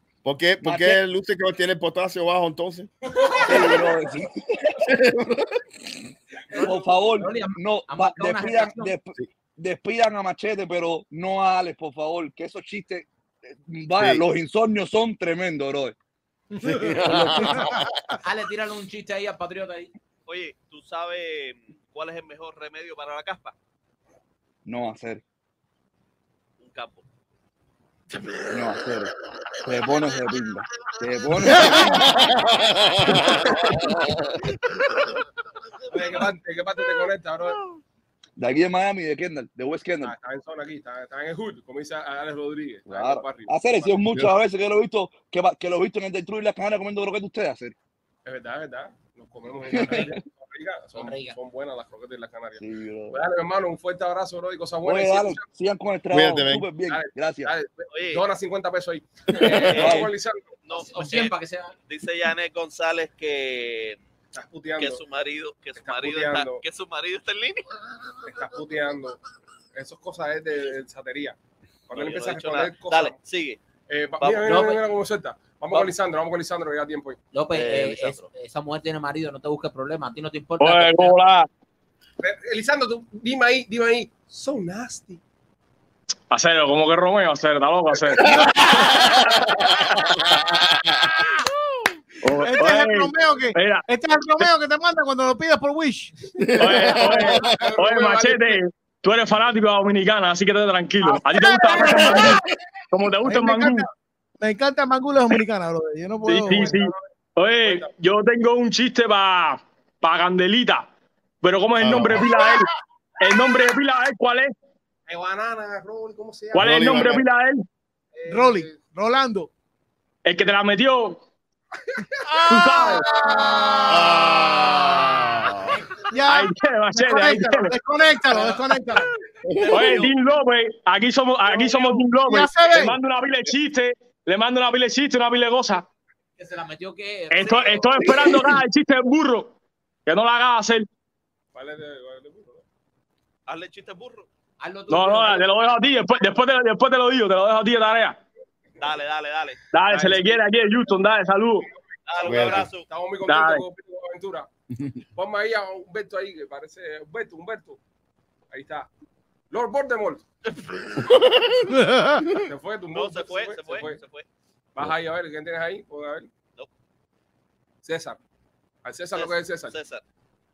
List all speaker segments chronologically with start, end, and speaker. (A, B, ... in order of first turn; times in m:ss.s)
0:00.2-0:02.9 A
0:00.6-0:01.0 B
0:03.4-0:04.3 B
0:04.9-0:05.4 A
0:06.6-0:08.9 C
0:06.6-0:13.1 B
0:13.7-0:16.0 B
0:14.0-0:14.2 A
0:16.6-0:17.9 A
0:18.2-0:19.9 C
0:20.3-0:23.5 D
0:24.6-0:25.2 B
0:26.6-0:27.0 D
0:28.5-0:29.1 B
0:29.6-0:32.0 B
0:31.7-0:34.2 A
0:35.9-0:37.6 E
0:38.4-0:40.1 B
0:40.0-0:44.0 E
0:42.9-0:47.8 B
0:44.1-0:44.4 A
0:48.2-0:55.5 E
0:49.7-0:50.1 B
0:49.9-0:50.1 C
0:51.0-0:51.4 C
0:52.6-0:53.2 B
0:54.8-0:57.5 B
0:56.1-0:56.7 A
0:56.9-1:00.5 E
0:57.9-0:58.2 D
0:59.6-1:00.1 B
0:59.6-1:00.0 D
1:00.6-1:01.3 D
1:00.7-1:01.7 C
1:01.9-1:04.0 D
1:04.3-1:05.0 E
1:04.8-1:07.6 D
1:05.8-1:06.6 E
1:08.2-1:09.2 E
1:09.8-1:11.4 E
1:11.9-1:13.2 E
1:11.9-1:13.6 D
1:13.9-1:17.2 E
1:14.2-1:14.7 D
1:14.5-1:14.8 C
1:17.3-1:21.2 C
1:17.5-1:18.3 D
1:20.6-1:21.5 F
1:22.2-1:25.2 E
1:26.3-1:28.4 F
1:28.4-1:31.2 A
1:32.2-1:33.9 F
1:32.4-1:36.1 G
1:36.4-1:37.5 A
1:36.6-1:42.4 F
1:37.4-1:38.6 E
1:41.0-1:42.4 G
1:42.9-1:43.9 F
1:43.2-1:43.9 G
1:44.4-1:46.8 G
1:46.3-1:50.9 F
1:46.7-1:47.0 E
1:47.6-1:47.9 E
1:51.4-1:52.7 F
1:51.8-1:52.3 A
1:53.2-1:54.5 F
1:55.1-1:57.2 E
1:56.6-1:57.6 F
1:56.6-1:57.2 A
1:58.1-1:58.8 E
1:58.3-1:59.5 G
2:00.2-2:01.2 F
2:02.2-2:04.0 G
2:02.5-2:03.0 F
2:03.9-2:05.8 A
2:06.1-2:09.1 G
2:06.3-2:07.7 F
2:09.5-2:09.9 A
2:09.7-2:15.8 F
2:09.7-2:10.1 D
2:12.2-2:13.0 G
2:16.4-2:18.2 C
2:17.3-2:19.5 F
2:20.1-2:20.9 F
2:21.5-2:22.6 E
2:23.5-2:24.3 D
2:24.6-2:25.6 C
2:24.9-2:28.2 F
2:28.8-2:29.6 D
2:29.7-2:31.7 F
2:29.9-2:30.4 E
2:32.1-2:32.9 D
2:32.2-2:32.7 A
2:32.2-2:34.5 E
2:33.3-2:33.6 F
2:35.2-2:37.8 E
2:38.5-2:38.9 E
2:39.5-2:40.2 E
2:42.4-2:44.0 E
2:42.9-2:44.3 D
2:44.8-2:46.3 E
2:47.8-2:48.2 E
2:48.8-2:49.8 E
2:49.2-2:50.0 D